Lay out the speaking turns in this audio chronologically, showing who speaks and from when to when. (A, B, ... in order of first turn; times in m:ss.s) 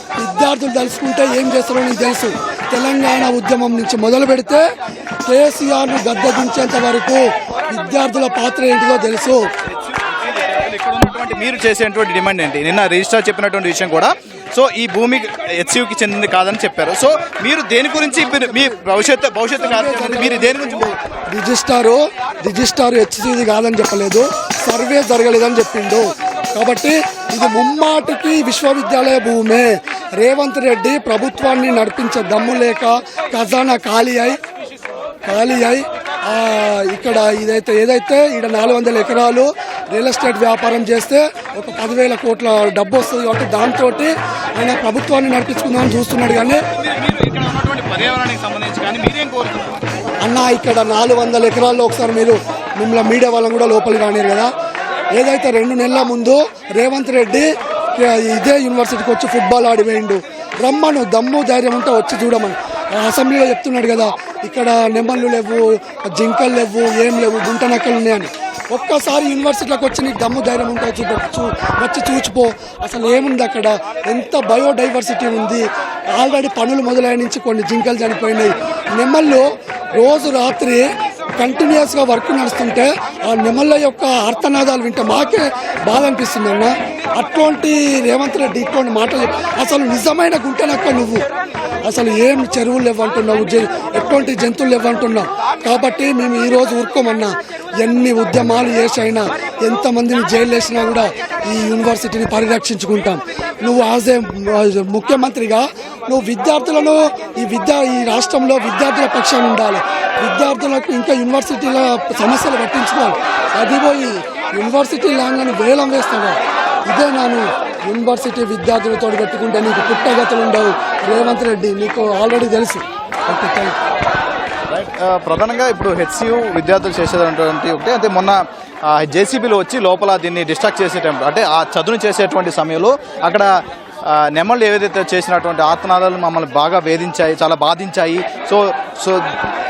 0:00.2-0:04.6 A
0:05.2-0:09.4 A
0:09.7-0:20.9 B
0:17.9-0:18.8 A
0:19.6-0:34.4 A
0:35.2-0:46.6 A
0:46.8-0:49.8 B
0:50.2-0:54.5 A
0:55.1-1:20.8 A
1:21.4-1:31.2 A
1:31.8-1:56.4 A
1:56.9-2:03.8 A
2:04.7-2:13.5 B
2:14.0-2:19.3 B